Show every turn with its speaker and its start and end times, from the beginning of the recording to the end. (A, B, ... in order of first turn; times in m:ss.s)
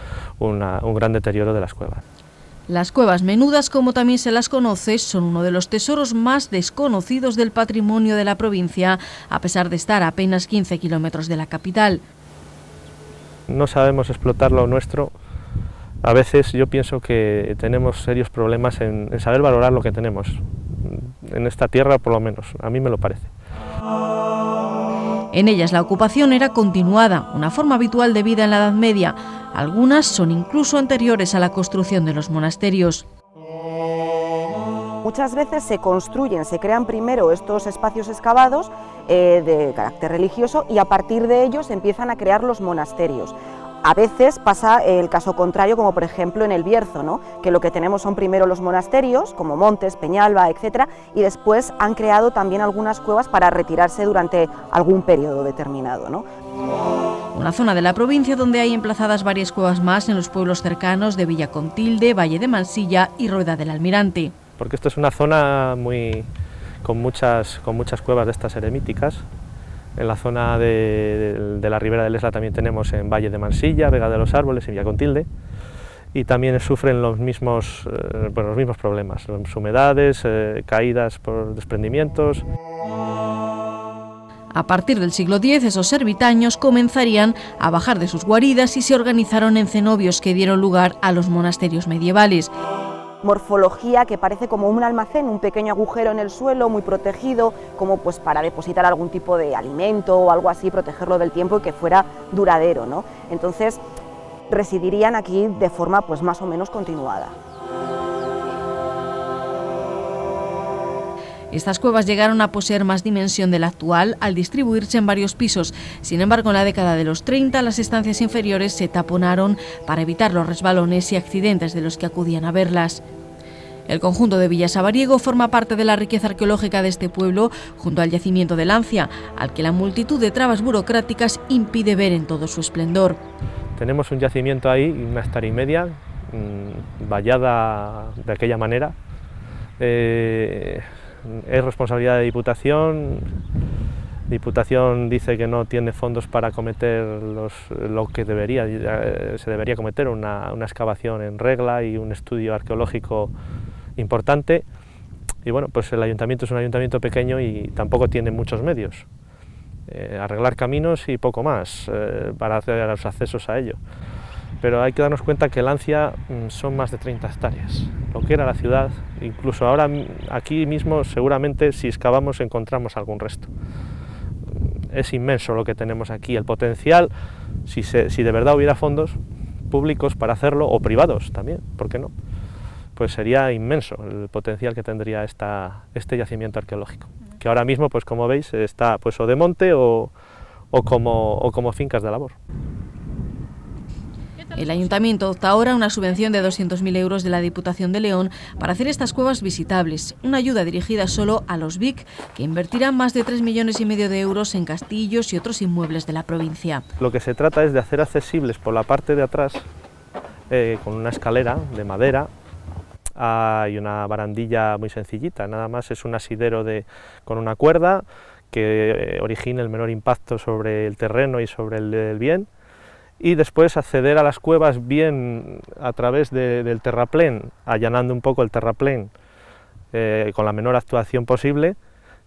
0:00.4-0:02.0 A
0:02.7-0:12.0 B
0:13.5-0:15.1 A
0:16.0-0:23.3 A
0:25.3-0:33.0 B
0:35.0-0:56.2 C
0:57.3-1:04.4 B
1:04.6-1:06.3 A
1:06.8-1:09.2 A
1:10.0-1:15.3 A
1:16.1-1:22.4 A
1:24.5-1:32.5 B
1:33.2-1:43.8 C
1:44.5-1:47.3 C
1:51.5-2:03.0 B
2:03.9-2:13.2 B
2:13.8-2:18.9 A
2:19.8-2:23.3 A
2:24.3-2:33.3 A
2:34.0-2:34.6 A
2:35.4-2:39.1 A
2:39.9-2:43.8 A
2:44.6-2:53.5 A
2:54.9-2:57.1 A
2:57.7-2:59.2 A
2:59.7-3:02.1 A
3:03.0-3:10.1 A
3:10.7-3:12.3 A
3:14.5-3:26.8 B
3:27.0-3:29.7 A
3:30.5-3:32.3 A
3:33.2-3:42.5 A
3:43.2-3:49.1 A
3:49.9-3:51.8 A